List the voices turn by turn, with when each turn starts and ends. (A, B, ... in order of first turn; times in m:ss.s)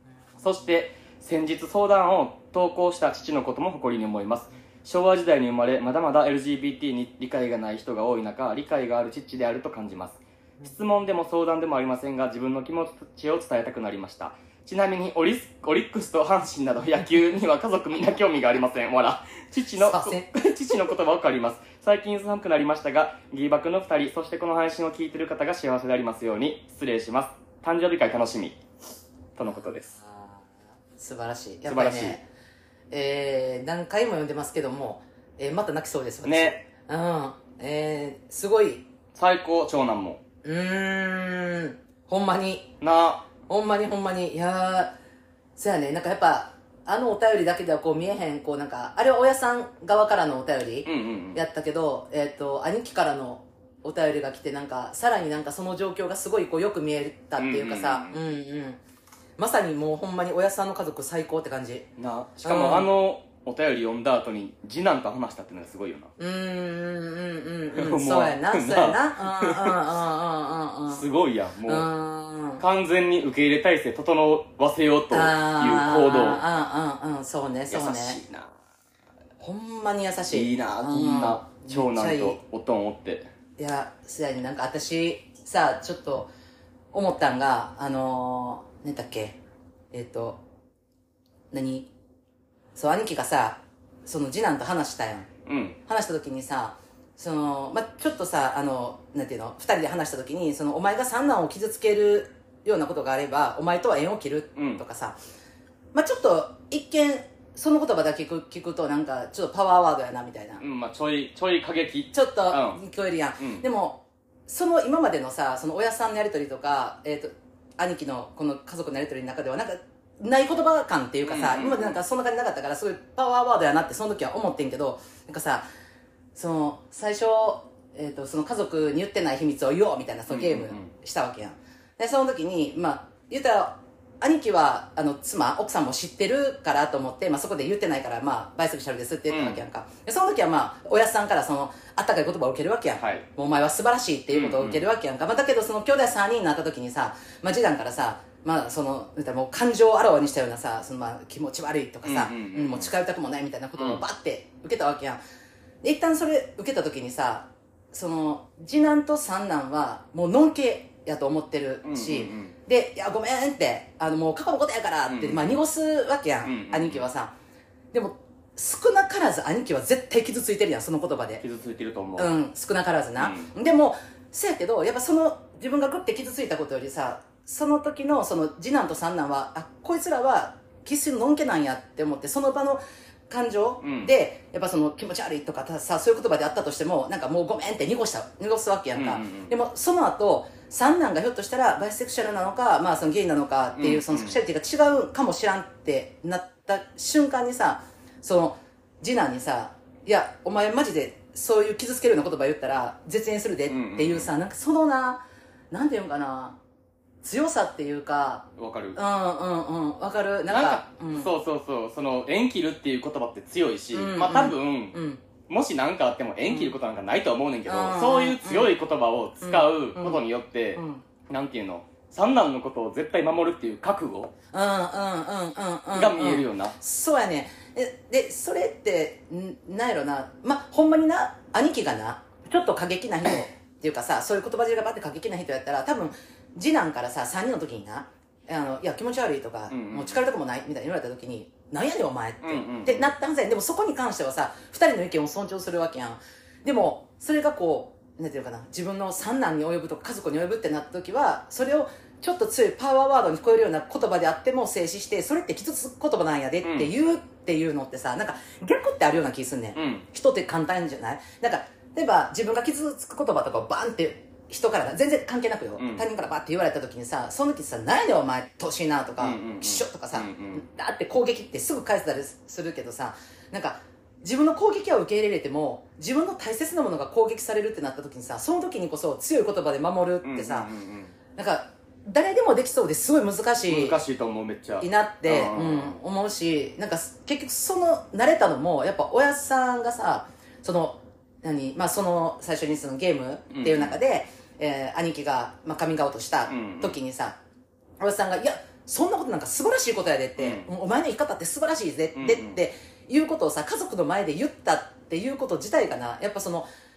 0:00.4-0:28.6 A
0:19.8-0:20.3 B
0:29.4-0:29.9 A
0:29.5-0:30.4 B
0:31.0-0:32.2 B
0:31.7-0:32.2 A
0:32.9-0:38.8 B
0:36.2-0:36.6 A
0:39.1-0:40.2 A
0:40.4-0:42.7 B
0:42.8-0:43.2 A
0:43.5-0:44.9 B
0:45.6-0:58.8 B
0:50.8-0:51.4 A
0:57.4-0:58.2 A
0:59.4-1:01.9 B
1:02.0-1:06.1 A
1:02.4-1:02.9 B
1:06.2-1:11.0 B
1:07.7-1:09.8 A
1:10.9-1:11.9 A
1:11.6-1:12.6 B
1:12.6-1:16.4 A
1:15.1-1:18.2 B
1:17.7-1:18.5 A
1:19.4-1:22.4 B
1:20.3-1:23.3 A
1:23.6-1:26.3 B
1:26.9-1:29.4 B
1:29.9-1:30.4 B
1:31.5-1:31.9 B
1:32.8-1:35.3 B
1:35.4-1:35.8 A
1:35.8-1:45.2 B
1:44.6-1:44.8 A
1:45.9-1:50.6 B
1:50.6-1:52.8 A
1:52.1-2:05.6 B
1:53.4-1:53.6 A
2:01.2-2:02.0 A
2:06.3-2:35.2 B
2:10.3-2:10.9 A
2:19.3-2:19.6 A
2:23.0-2:23.2 A
2:24.3-2:24.8 A
2:32.0-2:32.9 A
2:33.8-2:34.0 A
2:35.8-2:47.3 B
2:41.8-2:42.5 A
2:45.1-2:45.6 A
2:46.4-2:47.0 A
2:47.9-2:51.4 B
2:51.4-2:52.3 A
2:52.2-3:26.6 B
2:53.2-2:53.5 A
3:03.8-3:04.1 A
3:08.9-3:09.5 A
3:13.8-3:14.4 A
3:23.7-3:24.3 A
3:27.2-3:31.3 B
3:28.6-3:29.0 A
3:30.5-3:44.3 A
3:33.9-3:35.2 B
3:36.5-3:36.7 B
3:37.6-3:38.7 B
3:39.4-3:40.2 B
3:40.7-3:41.0 B
3:44.5-4:40.7 B
3:45.9-3:46.7 A
3:59.7-4:00.2 A
4:02.4-4:03.1 A
4:16.6-4:16.9 A
4:19.8-4:20.0 A
4:25.8-4:26.0 A
4:29.2-4:30.6 A
4:40.2-4:41.1 A
4:41.4-4:44.0 B
4:43.7-4:46.0 A
4:44.8-4:57.4 B
4:53.5-4:54.0 A
4:56.5-4:57.0 A
4:58.0-5:06.7 B
5:00.4-5:00.7 A
5:02.1-5:02.6 A